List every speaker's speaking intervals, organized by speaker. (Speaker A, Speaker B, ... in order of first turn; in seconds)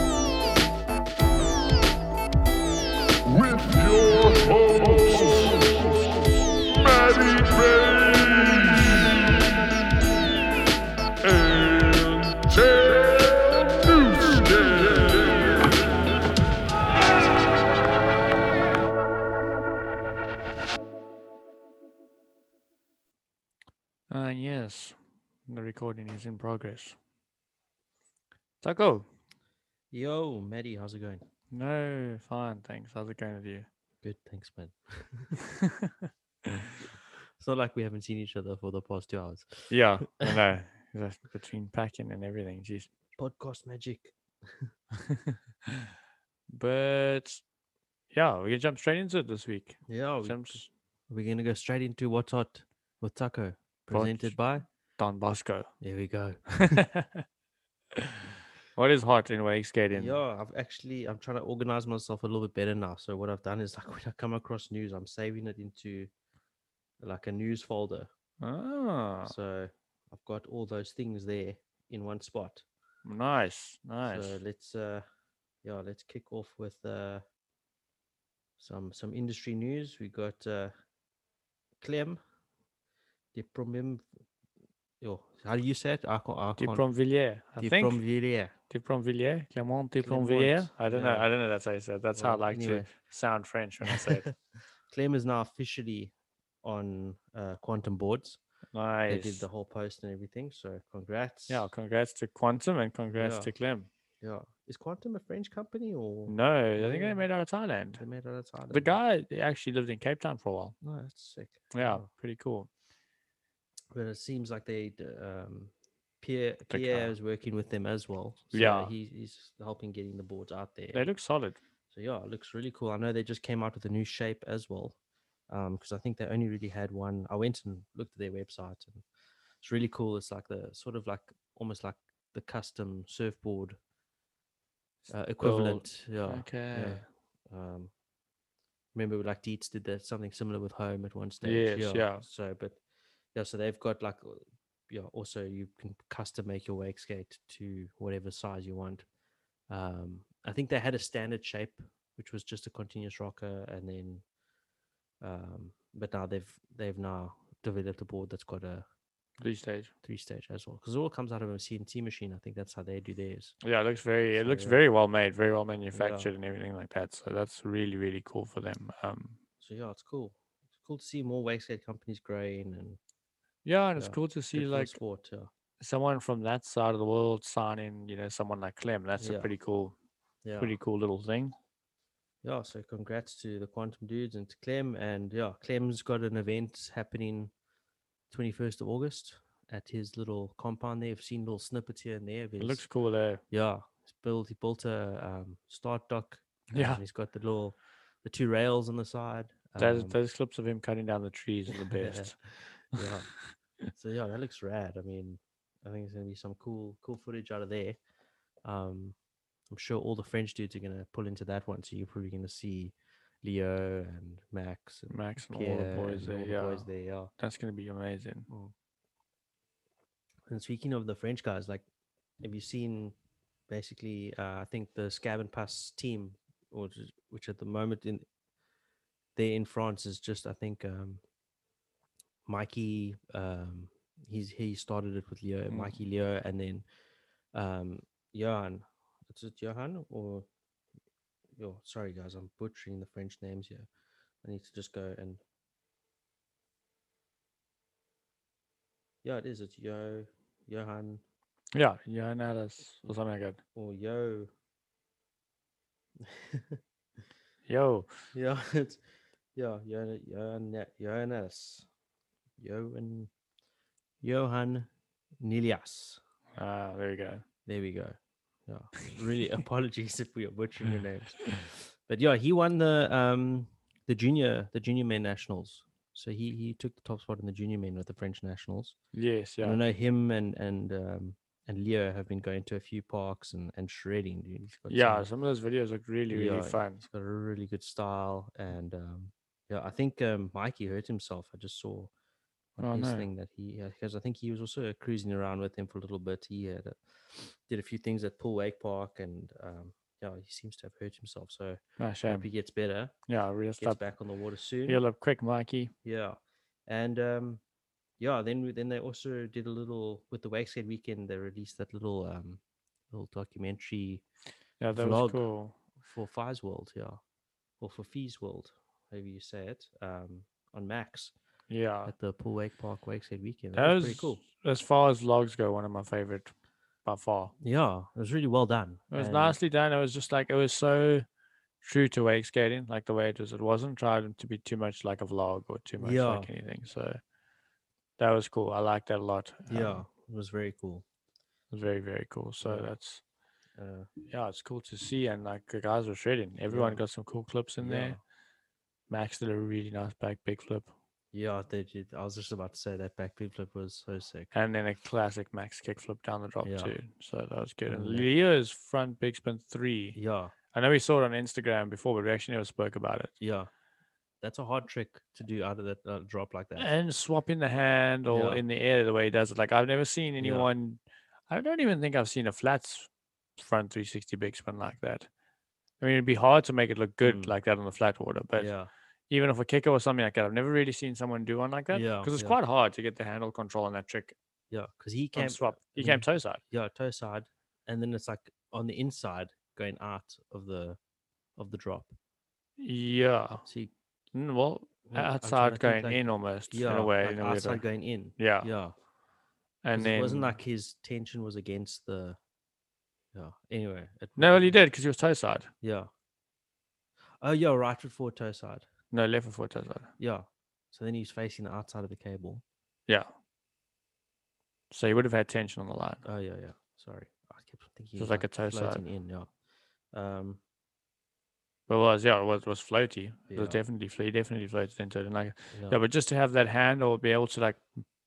Speaker A: 3.2-6.0, 6.7-9.3, 11.2-15.7
Speaker B: 24.1-27.0, 28.6-29.1, 31.5-33.7, 35.4-36.5, 39.7-42.9, 45.0-45.9, 46.5-47.4, 48.1-50.7, 53.9-54.4, 55.0-55.7, 56.5-57.2, 58.7-60.2, 68.4-69.3, 73.0-74.4, 86.6-88.0, 88.7-94.2, 98.7-99.5, 101.5-103.9, 106.3-108.0, 108.7-110.7, 111.7-112.7, 116.7-117.1, 118.5-118.9, 120.9-121.6, 135.4-137.0, 141.4-142.2, 159.4-159.9, 163.6-169.4, 173.6-175.0, 175.8-179.9, 180.6-181.5, 192.6-193.4, 196.7-197.0, 199.8-202.4, 215.1-218.5, 235.7-236.0, 251.7-253.6, 257.7-258.1, 266.6-267.4, 279.1-279.8, 284.9-287.0, 292.8-293.3, 302.0-302.5, 303.3-304.0, 304.9-305.9, 314.8-315.8, 321.7-322.1, 323.7-326.5, 327.0-327.5, 329.1-331.2, 331.8-337.2, 338.2-340.0, 341.7-343.2, 344.3-348.2, 349.1-350.9, 354.5-360.2, 360.7-363.3, 366.8-375.3, 376.0-378.7, 379.3-384.3, 385.3-386.6, 392.8-393.6, 394.3-397.8, 398.4-398.7, 399.8-400.6, 404.4-405.7, 409.1-410.1, 414.9-416.2, 418.2-419.0, 421.9-427.9
Speaker C: 29.9-31.2, 34.0-35.4, 37.4-40.4, 43.1-44.7, 49.9-54.6, 55.8-56.8, 59.9-66.1, 67.0-68.1, 69.2-72.6, 74.0-75.0, 75.6-77.2, 78.6-80.7, 81.8-82.2, 83.3-84.0, 85.0-86.8, 87.6-88.5, 90.0-91.3, 92.1-92.9, 93.8-94.3, 94.9-98.4, 99.1-101.7, 103.1-103.5, 104.2-107.2, 107.9-108.9, 110.8-112.0, 113.9-121.1, 121.9-125.0, 125.5-129.0, 129.6-133.8, 135.1-137.9, 138.9-142.8, 143.3-149.0, 149.7-154.2, 155.2-158.8, 160.0-163.5, 164.3-164.8, 165.9-166.3, 169.6-173.0, 174.0-175.5, 179.2-179.5, 180.4-180.8, 182.4-187.5, 188.3-192.8, 193.5-200.2, 202.0-203.3, 203.9-208.0, 208.6-209.2, 209.7-217.3, 220.5-221.8, 222.4-223.2, 223.7-228.2, 229.3-231.2, 232.5-236.8, 237.5-240.5, 241.6-243.9, 244.4-245.4, 249.2-251.2, 253.7-254.5, 256.2-256.8, 258.3-259.0, 259.5-261.9, 262.6-263.3, 264.2-266.2, 267.6-279.0, 279.6-285.3, 286.3-292.1, 292.8-303.1, 303.8-305.0, 306.0-307.6, 308.2-314.2, 314.9-315.5, 316.0-317.2, 317.8-321.3, 322.1-324.4, 327.6-329.6, 336.0-336.5, 339.7-341.0, 342.6-342.9, 343.8-344.1, 346.7-347.0, 347.8-348.2, 351.3-354.5, 356.6-356.9, 357.9-358.3, 360.1-360.5, 363.4-363.7, 364.4-366.9, 368.3-368.6, 370.4-370.7, 377.2-377.5, 378.6-378.9, 381.9-382.6, 384.7-391.0, 391.6-392.1, 393.6-393.9, 395.1-398.9, 399.9-402.4, 403.3-404.7, 405.8-406.1, 407.4-408.9, 410.2-412.6, 416.2-419.5, 420.1-420.6, 423.5-423.8, 425.7-426.0